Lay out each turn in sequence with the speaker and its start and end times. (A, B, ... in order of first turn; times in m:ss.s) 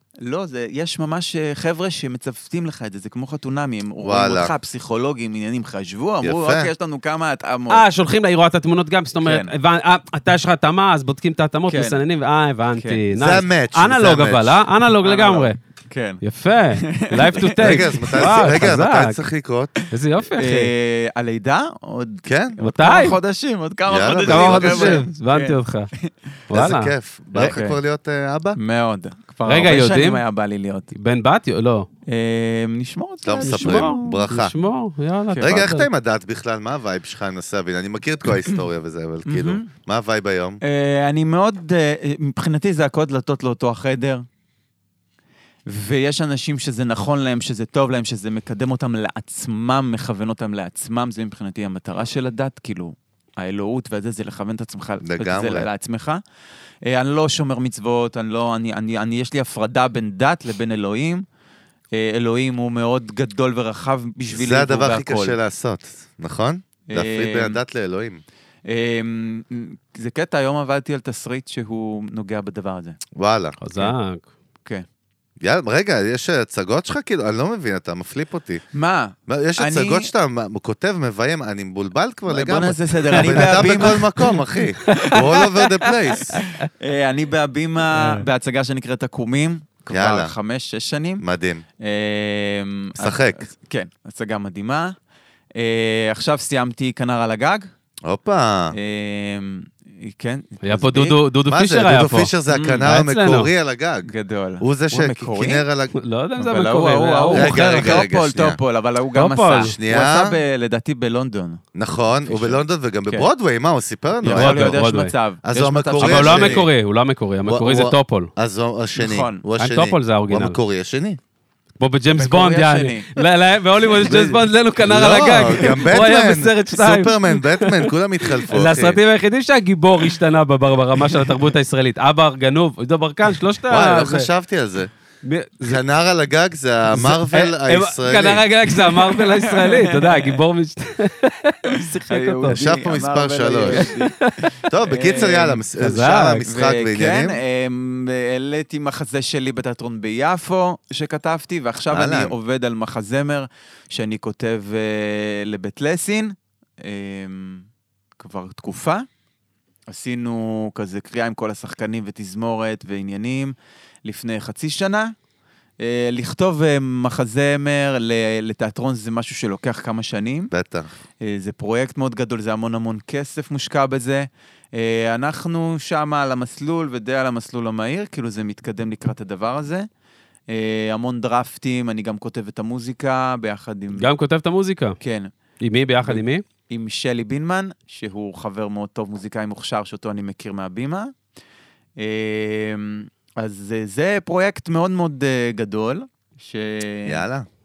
0:00.2-0:07.8 A
0:04.0-0:04.5 B
0:06.2-0:06.7 B
0:07.7-0:15.6 C
0:09.2-0:09.5 A
0:11.7-0:12.0 A
0:12.7-0:13.0 A
0:13.2-0:14.6 B
0:15.0-0:16.2 A
0:16.2-0:19.2 C
0:16.7-0:18.4 A
0:17.6-0:19.7 B
0:19.9-0:20.7 C
0:20.4-0:26.1 A
0:22.2-0:22.6 B
0:22.6-0:23.2 C
0:23.9-0:25.0 B
0:24.1-0:25.9 C
0:26.5-0:26.9 C
0:26.5-0:28.6 B
0:27.4-0:27.8 A
0:28.6-0:30.9 A
0:29.5-0:30.2 C
0:30.9-0:31.9 C
0:32.1-0:34.3 A
0:33.2-0:34.5 B
0:33.4-0:35.9 C
0:35.4-0:40.6 B
0:39.2-0:39.7 A
0:40.6-0:44.2 A
0:45.7-0:56.2 A
0:55.0-0:55.7 B
0:56.8-1:01.2 A
1:01.9-1:05.4 A
1:04.3-1:08.2 B
1:06.9-1:07.6 A
1:08.7-1:13.0 A
1:13.2-1:13.6 B
1:13.6-1:14.2 C
1:15.4-1:18.6 B
1:18.7-1:20.1 A
1:19.3-1:26.4 B
1:22.3-1:31.2 A
1:23.4-1:24.0 C
1:24.9-1:25.2 C
1:28.0-1:28.2 C
1:29.9-1:30.4 B
1:31.2-1:31.6 B
1:31.8-1:35.0 A
1:33.0-1:33.5 B
1:35.6-1:37.7 A
1:38.0-1:38.8 B
1:38.7-1:41.2 A
1:40.6-1:42.3 C
1:41.5-1:44.1 B
1:42.5-1:42.8 A
1:42.8-1:43.5 C
1:44.1-1:45.6 A
1:44.6-1:46.0 B
1:46.0-1:48.0 C
1:46.4-1:51.6 A
1:47.3-1:48.6 B
1:49.2-1:49.7 C
1:49.6-1:50.4 B
1:51.8-1:54.8 B
1:52.3-1:53.3 A
1:54.2-1:56.7 A
1:54.2-1:55.1 C
1:55.4-1:56.7 B
1:56.0-1:58.3 C
1:57.5-2:01.2 B
1:59.0-1:59.4 A
1:59.6-2:00.6 C
2:01.8-2:14.3 C
2:02.2-2:03.1 A
2:03.8-2:04.4 A
2:04.8-2:09.0 B
2:13.7-2:14.9 B
2:15.2-2:15.8 C
2:15.6-2:18.4 B
2:16.9-2:22.6 C
2:18.7-2:20.4 A
2:21.7-2:25.6 A
2:22.5-2:23.9 B
2:23.7-2:24.5 C
2:24.7-2:27.4 B
2:25.8-2:26.5 C
2:26.4-2:37.7 A
2:31.9-2:32.4 B
2:38.2-2:39.0 A
2:39.9-2:43.5 A
2:44.0-2:45.1 A
2:45.8-2:50.5 A
2:50.5-2:50.9 B
2:51.2-2:59.9 A
3:00.5-3:04.1 A
3:04.0-3:05.0 C
3:05.0-3:05.3 A
3:05.6-3:06.4 C
3:06.0-3:11.1 A
3:12.0-3:17.2 A
3:17.1-3:17.5 B